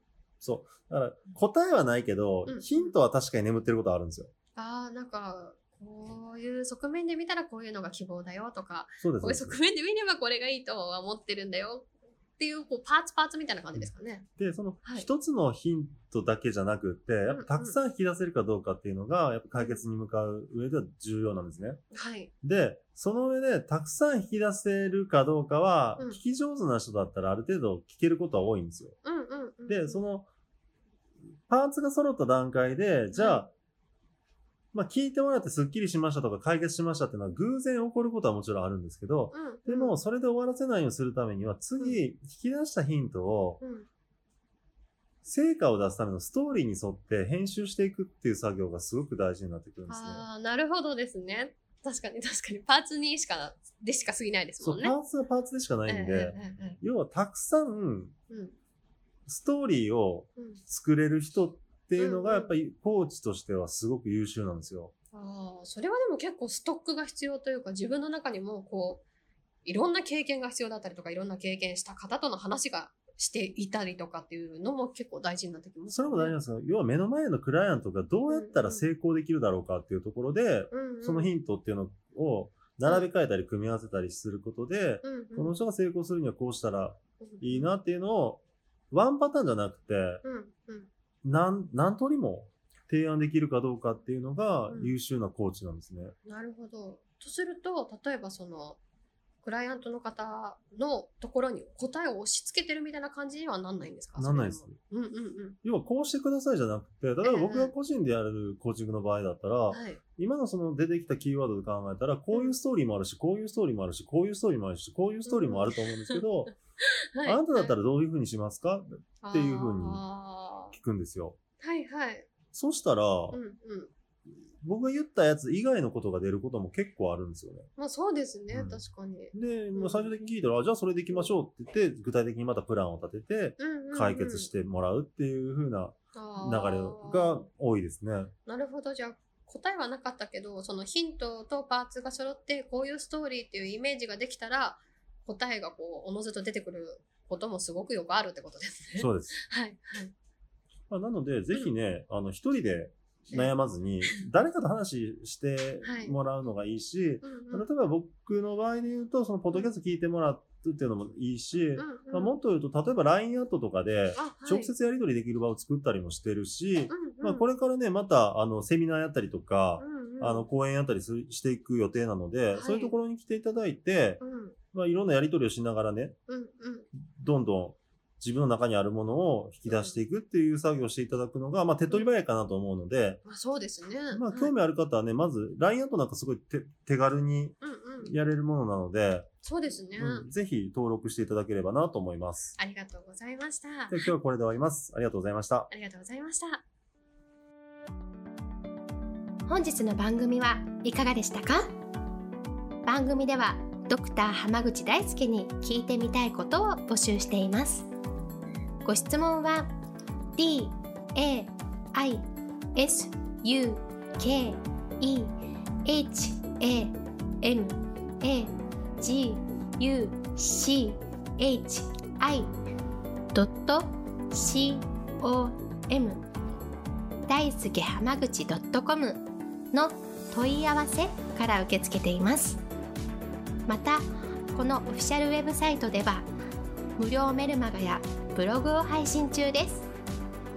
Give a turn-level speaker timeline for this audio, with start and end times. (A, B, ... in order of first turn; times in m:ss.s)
0:00.4-0:04.3 A
0:02.5-0:02.9 B
0:04.6-0:14.3 B
0:09.0-0:09.6 A
0:13.8-0:21.8 A
0:17.3-0:17.8 B
0:19.5-0:19.8 B
0:21.9-0:22.3 B
0:22.4-0:29.0 A
0:29.0-0:30.0 B
0:29.7-0:30.3 A
0:31.5-0:33.5 A
0:33.2-0:33.5 B
0:34.7-0:43.6 A
0:39.3-0:40.0 B
0:43.6-0:43.9 B
0:45.2-0:50.3 A
0:49.9-0:55.0 B
0:54.6-0:58.2 A
0:55.9-0:56.8 B
0:58.3-0:58.6 B
0:59.3-1:04.9 A
1:00.4-1:00.6 B
1:02.0-1:02.5 B
1:05.1-1:09.0 B
1:09.6-1:16.4 B
1:15.9-1:30.2 A
1:18.3-1:18.8 B
1:20.7-1:21.3 B
1:22.8-1:23.1 B
1:25.0-1:25.6 B
1:27.2-1:27.7 B
1:30.2-1:30.9 B
1:31.2-1:36.2 A
1:36.2-1:38.8 B
1:39.4-1:45.6 B
1:44.2-1:44.8 A
1:45.6-1:56.5 A
1:47.2-1:47.7 B
1:49.7-1:50.0 B
1:55.3-1:56.2 B
1:57.1-1:57.7 B
1:57.2-2:00.0 A
1:59.2-2:00.8 B
2:00.7-2:01.4 A
2:01.6-2:02.3 B
2:02.5-2:03.4 A
2:03.3-2:03.9 B
2:04.6-2:07.7 A
2:07.8-2:10.1 B
2:08.5-2:08.8 A
2:09.3-2:18.3 A
2:13.6-2:14.5 B
2:16.1-2:17.5 B
2:18.5-2:30.1 B
2:29.0-2:29.4 A
2:30.9-2:54.2 A
2:35.8-2:36.2 B
2:37.2-2:37.7 B
2:41.8-2:42.4 B
2:44.2-2:44.7 B
2:46.9-2:47.5 B
2:49.8-2:50.5 B
2:52.6-2:53.0 B
2:54.2-2:54.6 B
2:54.7-2:56.2 A
2:56.3-2:56.9 B
2:57.0-3:03.2 A
2:59.7-3:00.0 B
3:03.2-3:04.6 B
3:04.1-3:09.3 A
3:07.6-3:08.1 B
3:09.4-3:10.3 B
3:10.0-3:12.6 A
3:12.6-3:14.0 B
3:13.9-3:15.7 A
3:15.7-3:16.6 B
3:19.5-3:21.7 C
3:22.8-3:27.9 C
3:28.8-3:29.7 C
3:30.4-3:35.3 C
3:35.8-3:42.5 C
3:43.3-3:46.3 C
3:47.3-3:52.6 C
3:53.7-3:56.3 C
3:57.0-3:59.9 C